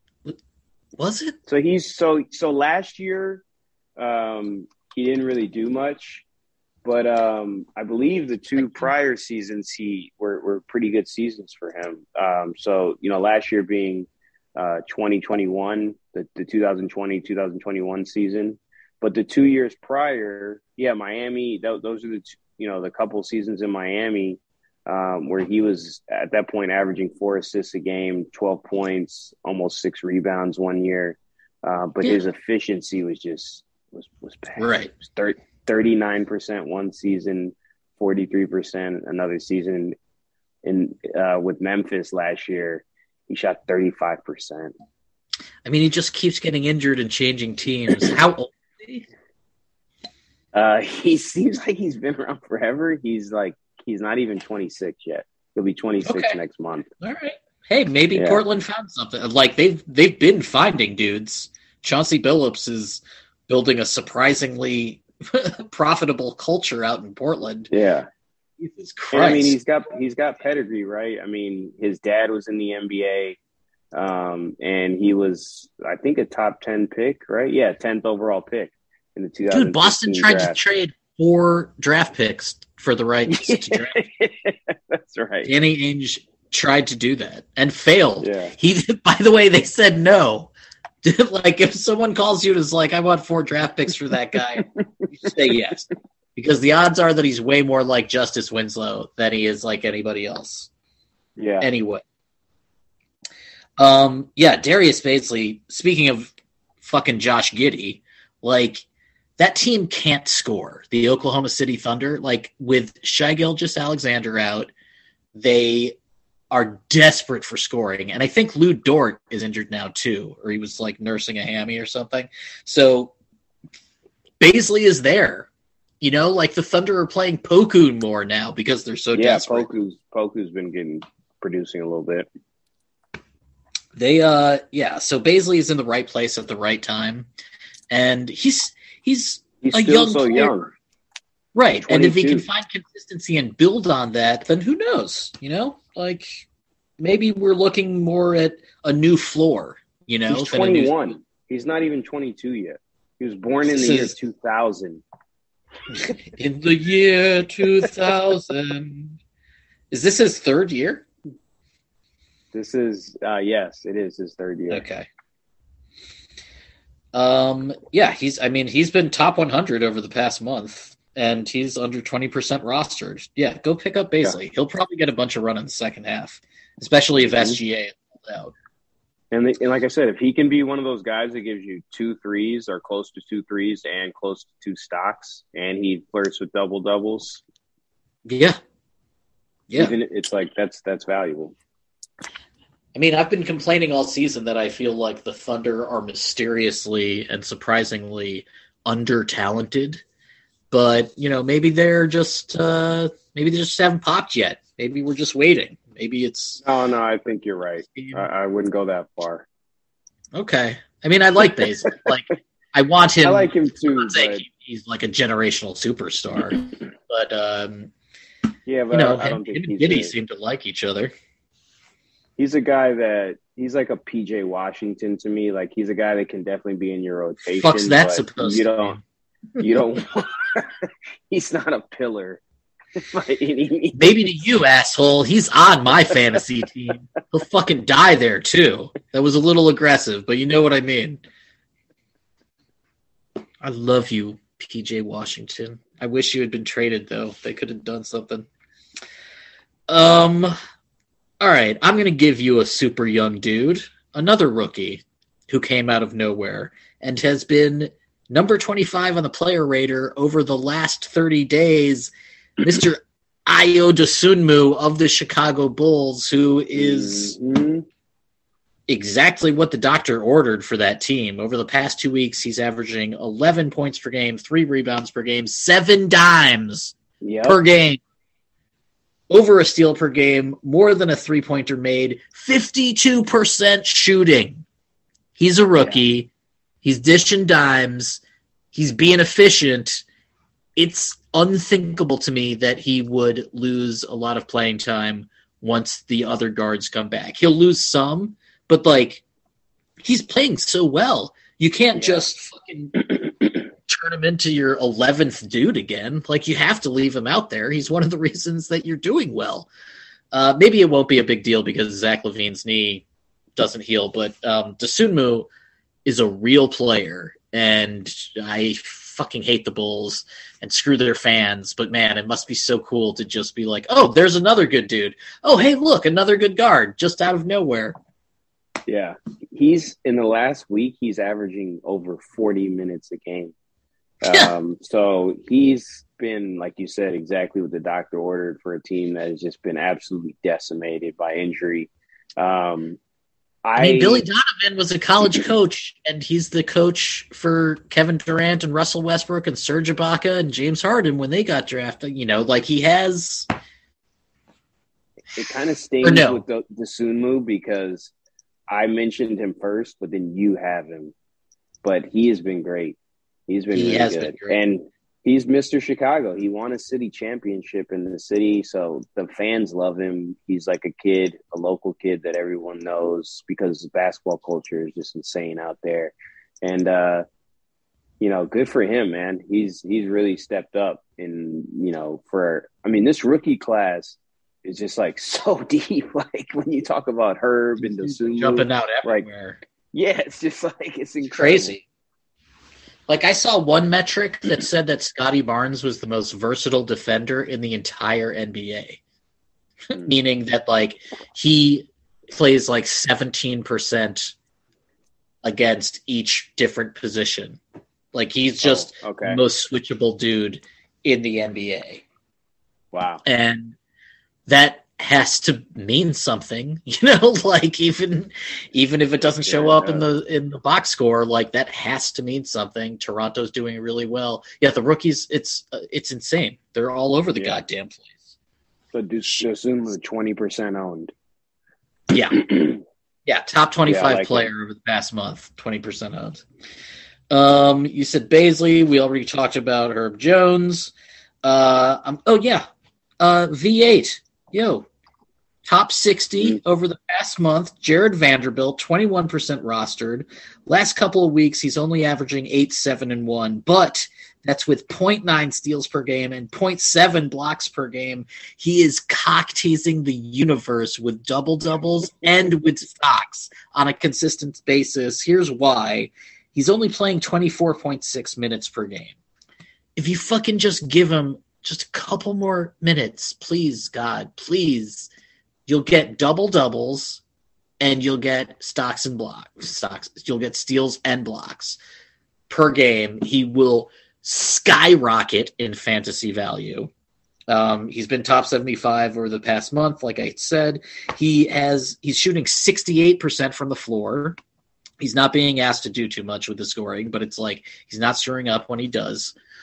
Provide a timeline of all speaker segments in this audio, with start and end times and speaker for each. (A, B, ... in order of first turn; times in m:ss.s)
0:01.0-0:01.4 A
0:01.5-0:03.4 B
0:04.0-0:06.2 B
0:06.8-0:39.9 B
0:08.6-0:08.9 A
0:34.6-0:34.9 A
0:40.6-0:44.7 B
0:45.6-0:49.1 A
0:50.5-0:56.9 B
0:56.0-0:56.4 A
0:57.0-1:07.7 A
0:58.1-0:58.4 B
1:07.7-1:08.1 B
1:08.6-1:09.6 A
1:09.1-1:13.4 B
1:13.9-1:20.6 B
1:19.5-1:24.0 A
1:23.3-1:25.5 B
1:25.4-1:30.5 A
1:28.2-1:28.5 B
1:31.0-1:40.7 A
1:41.4-1:41.7 B
1:41.6-1:42.0 A
1:43.8-1:48.8 A
1:49.4-1:54.7 A
1:55.3-1:56.0 A
1:56.5-2:03.1 A
2:04.4-2:05.5 A
2:06.0-2:09.7 A
2:09.1-2:12.3 B
2:13.9-2:17.3 A
2:17.9-2:20.5 A
2:19.6-2:20.7 B
2:21.5-2:26.4 A
2:21.7-2:22.4 B
2:27.0-2:30.9 A
2:30.3-2:35.0 B
2:33.7-2:34.1 A
2:35.9-2:39.2 A
2:39.9-2:41.0 A
2:42.5-2:44.8 B
2:44.7-2:45.1 A
2:47.1-2:58.5 A
2:57.3-2:57.6 B
2:59.3-3:07.4 B
3:08.3-3:08.6 A
3:09.7-3:11.5 B
3:12.9-3:20.0 A
3:20.7-3:26.6 A
3:26.6-3:29.4 B
3:27.9-3:28.3 A
3:30.3-3:37.9 A
3:33.2-3:34.4 B
3:38.6-3:40.1 B
3:38.9-3:41.1 A
3:42.4-3:49.0 B
3:47.6-3:49.0 A
3:49.6-3:52.4 B
3:53.0-3:54.2 B
3:53.9-4:01.2 A
4:03.6-4:08.5 A
4:09.9-4:10.5 A
4:11.4-4:27.4 A
4:26.7-4:27.8 B
4:28.9-4:38.0 A
4:37.2-4:37.6 B
4:39.3-4:44.6 A
4:45.4-4:46.3 A
4:46.8-4:48.2 A
4:48.7-4:50.0 A
4:50.8-4:59.2 A
5:00.0-5:03.1 A
5:01.9-5:02.2 B
5:03.8-5:09.7 A
5:10.3-5:13.0 A
5:13.6-5:15.5 A
5:16.0-5:28.0 A
5:28.9-5:33.5 B
5:34.2-5:43.0 B
5:34.3-5:34.5 A
5:43.6-5:44.2 B
5:43.8-5:53.5 A
5:55.4-5:58.1 B
5:56.0-5:56.4 A
5:58.7-6:01.1 B
6:01.8-6:03.0 B
6:03.5-6:17.2 B
6:03.7-6:04.6 A
6:18.2-6:29.3 B
6:27.8-6:29.6 A
6:29.9-6:31.8 B
6:31.3-6:31.8 A
6:33.1-6:39.0 A
6:39.9-6:44.3 A
6:45.4-6:47.6 A
6:48.1-6:52.0 A
6:48.6-6:49.4 B
6:52.9-6:53.2 B
6:53.2-6:53.7 A
6:54.5-7:08.3 A
6:59.4-7:00.0 B
7:07.4-7:07.6 B
7:08.9-7:11.1 B
7:12.1-7:12.4 A
7:12.3-7:12.8 B
7:13.2-7:16.4 A
7:13.9-7:14.5 B
7:17.3-7:20.9 A
7:21.4-7:22.6 A
7:23.2-7:24.9 A
7:25.6-7:49.1 A
7:50.0-7:55.1 A
7:55.7-7:57.2 A
7:57.8-8:01.8 A
8:02.5-8:06.9 A
8:07.5-8:14.4 A
8:15.0-8:19.3 A